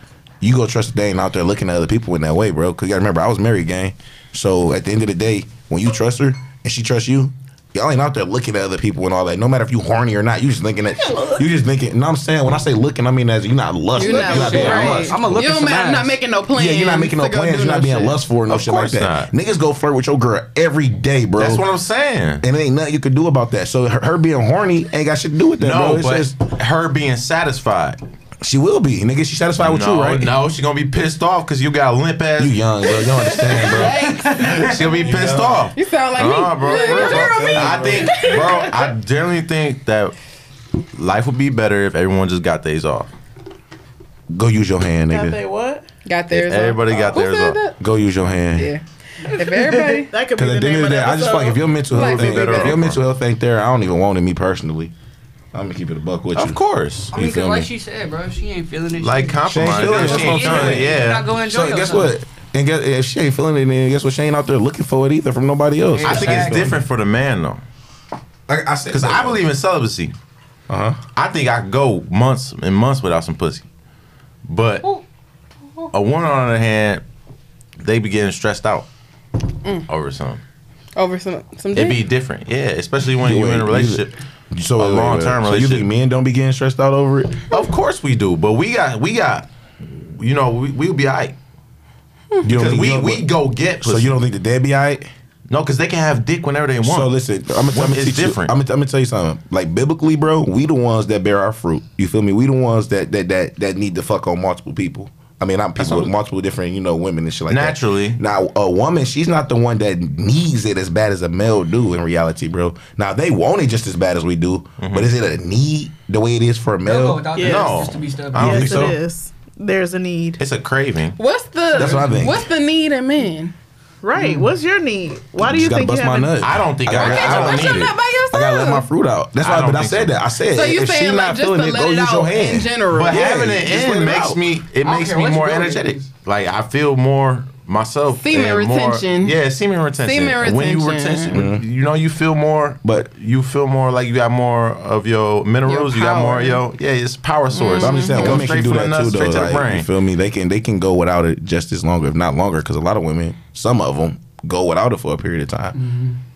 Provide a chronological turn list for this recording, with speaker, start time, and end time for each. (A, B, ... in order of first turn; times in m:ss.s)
0:00.4-0:15.2 A
0:11.0-0:11.4 B
0:13.9-0:18.2 C
0:14.1-0:16.2 D
0:16.5-0:21.6 A
0:18.5-0:19.3 E
0:21.4-0:22.4 E
0:22.4-0:26.4 A
0:25.6-0:28.0 E
0:28.4-0:30.3 A
0:29.6-0:32.6 E
0:32.4-0:35.7 A
0:33.5-0:40.1 E
0:33.6-0:34.6 C
0:35.7-0:38.7 C
0:36.7-0:38.3 A
0:40.9-0:43.1 E
0:44.3-0:45.4 A
0:45.1-0:45.8 B
0:46.0-0:47.8 C
0:46.3-0:47.6 E
0:47.8-0:48.7 A
0:48.6-0:50.1 C
0:49.6-0:51.8 B
0:50.3-0:54.9 A
0:51.9-0:52.8 C
0:51.9-0:53.0 E
0:55.5-0:56.6 A
0:56.3-0:57.1 E
0:57.1-1:02.2 D
0:57.1-0:57.7 A
0:59.0-1:01.3 E
0:59.5-1:06.8 A
1:05.9-1:06.8 D
1:06.0-1:07.6 E
1:08.5-1:09.4 A
1:08.9-1:10.1 E
1:10.7-1:11.0 A
1:11.1-1:13.7 E
1:14.4-1:14.9 E
1:15.9-1:17.0 E
1:17.8-1:18.9 E
1:19.8-1:20.4 E
1:21.0-1:22.0 C
1:21.7-1:24.1 E
1:23.2-1:27.6 A
1:24.8-1:25.9 E
1:27.5-1:31.4 E
1:32.4-1:35.1 A
1:32.4-1:34.2 E
1:35.5-1:37.1 E
1:36.8-1:57.3 A
1:37.7-1:38.5 E
1:45.8-1:46.1 E
1:47.5-1:48.2 E
1:54.8-1:55.1 E
1:56.8-1:58.6 D
1:57.3-2:00.4 B
1:57.4-1:59.0 E
1:58.4-1:59.0 A
2:00.4-2:01.2 E
2:01.2-2:03.5 C
2:01.7-2:02.1 D
2:01.8-2:02.4 A
2:04.0-2:06.4 B
2:05.4-2:14.4 A
2:06.4-2:08.0 E
2:07.0-2:08.9 C
2:09.4-2:10.1 E
2:10.5-2:13.2 C
2:12.9-2:29.9 E
2:14.8-2:16.0 D
2:18.1-2:19.4 C
2:20.0-2:21.4 C
2:21.3-2:21.6 A
2:22.8-2:23.1 A
2:25.6-2:26.6 C
2:27.5-2:28.5 C
2:27.7-2:35.8 A
2:35.7-2:36.2 D